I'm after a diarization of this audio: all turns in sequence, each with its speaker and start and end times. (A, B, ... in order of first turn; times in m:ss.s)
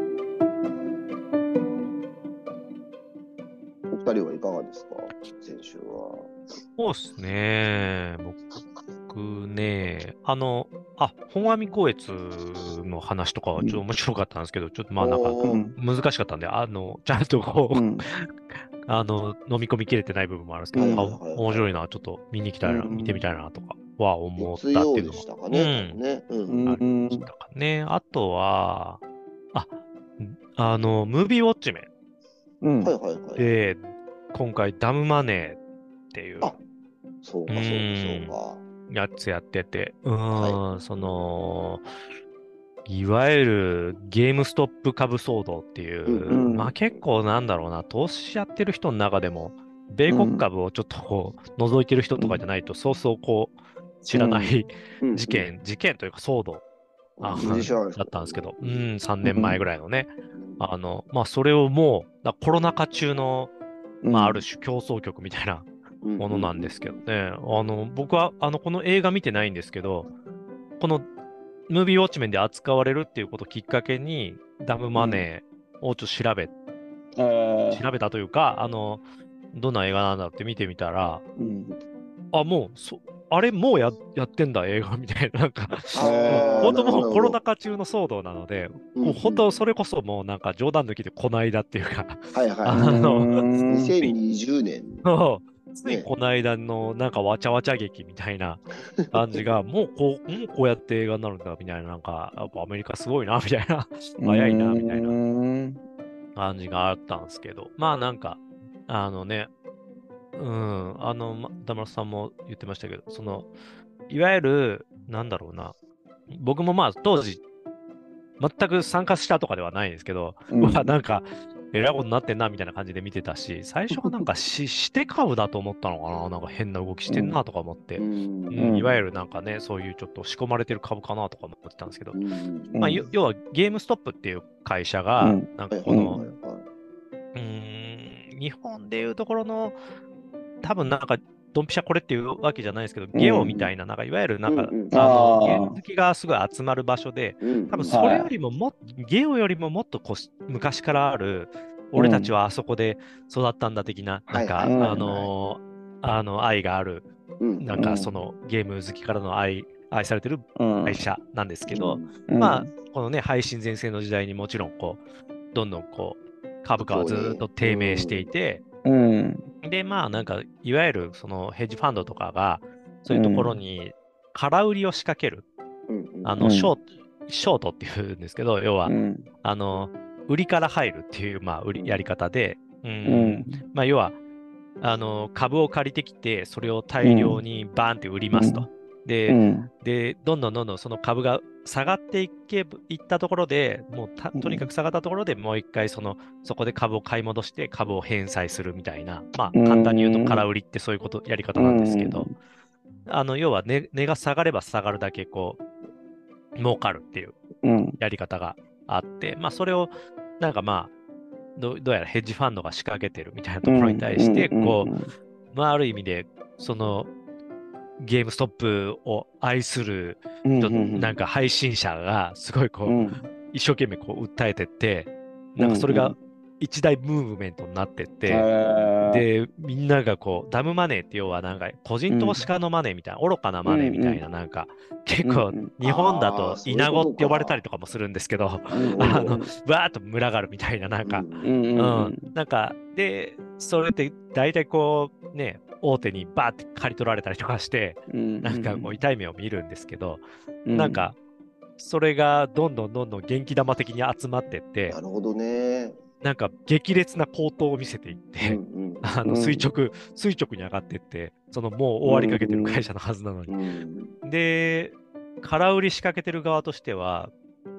0:03.9-0:06.3 A
0:06.8-0:08.4 B
0:09.1-0:26.0 B
0:15.0-0:15.7 A
0:15.4-0:15.7 C
0:17.7-0:18.0 C
0:20.7-0:21.1 C
0:20.7-0:21.7 A
0:22.6-0:23.2 C
0:24.4-0:26.7 A
0:26.5-0:27.3 C
0:26.6-0:29.0 B
0:29.5-0:31.9 B
0:32.6-0:32.9 C
0:32.8-0:33.4 A
0:33.4-0:35.6 B
0:36.1-0:36.5 B
0:37.2-0:38.6 A
0:37.5-0:38.4 B
0:38.9-0:41.8 B
0:40.3-0:40.6 A
0:42.8-0:56.6 B
0:46.0-0:46.4 A
0:46.3-0:46.7 C
0:50.1-0:50.4 C
0:54.1-0:54.5 C
0:55.0-0:55.5 A
0:57.2-0:58.8 A
0:57.2-1:03.5 B
0:57.4-0:57.7 C
0:59.2-0:59.6 C
1:00.3-1:00.6 A
1:04.0-1:04.4 C
1:04.1-1:10.1 B
1:06.0-1:07.0 A
1:10.8-1:11.0 B
1:11.7-1:16.5 B
1:14.9-1:15.2 C
1:17.2-1:17.8 C
1:17.7-1:21.2 B
1:21.4-1:21.8 C
1:22.3-1:33.4 B
1:25.9-1:27.4 A
1:26.0-1:27.0 C
1:28.9-1:29.4 A
1:32.3-1:33.0 A
1:32.7-1:33.9 C
1:33.6-1:35.0 A
1:35.0-1:45.2 B
1:39.0-1:39.4 A
1:44.2-1:45.8 C
1:46.4-1:49.5 B
1:50.4-1:53.5 B
1:54.1-1:55.7 B
1:56.3-1:57.4 B
1:58.4-2:12.2 B
2:00.5-2:00.9 C
2:07.1-2:07.4 C
2:08.0-2:08.7 A
2:08.6-2:09.0 C
2:12.1-2:12.8 A
2:12.7-2:13.0 C
2:12.8-2:16.2 B
2:15.2-2:16.2 C
2:15.7-2:16.7 A
2:17.3-2:19.8 B
2:20.6-2:37.0 B
2:23.1-2:23.7 C
2:24.5-2:25.0 A
2:24.9-2:25.8 C
2:27.4-2:28.0 A
2:27.9-2:28.3 C
2:32.0-2:32.3 C
2:34.3-2:35.3 A
2:34.6-2:35.0 C
2:37.4-2:37.7 A
2:37.6-2:45.0 B
2:37.7-2:38.1 C
2:40.6-2:41.0 C
2:41.7-2:42.1 A
2:42.3-2:42.7 C
2:45.5-2:48.6 B
2:46.8-2:48.3 A
2:48.8-2:49.4 C
2:49.6-2:55.4 B
2:53.1-2:53.6 C
2:55.9-2:56.5 A
2:56.2-3:04.2 B
2:56.4-2:56.7 C
2:58.8-2:59.2 C
3:03.0-3:03.6 C
3:04.8-3:22.3 B
3:07.0-3:07.4 C
3:08.3-3:08.7 C
3:09.3-3:09.7 C
3:14.3-3:14.6 C
3:19.5-3:20.4 C
3:21.6-3:22.3 C
3:23.1-3:25.6 B
3:26.6-3:27.4 B
3:27.6-3:28.0 C
3:28.0-3:30.9 B
3:31.6-3:34.9 B
3:33.6-3:35.1 C
3:35.5-3:37.1 B
3:38.0-3:48.5 B
3:40.4-3:41.2 C
3:42.8-3:43.2 C
3:45.6-3:46.2 C
3:48.2-3:49.2 C
3:49.0-4:11.2 B
3:52.1-3:52.4 C
3:53.6-3:54.2 C
3:55.2-3:55.7 C
3:55.8-3:57.6 A
3:58.7-3:59.5 C
3:58.8-3:59.4 A
4:01.0-4:01.6 A
4:01.4-4:02.3 C
4:08.1-4:08.9 C
4:10.6-4:11.0 C
4:11.8-4:15.0 B
4:14.9-4:16.0 A
4:16.2-4:23.6 B
4:18.4-4:19.2 A
4:19.2-4:19.7 C
4:22.0-4:22.8 C
4:23.5-4:24.2 A
4:24.2-4:27.3 B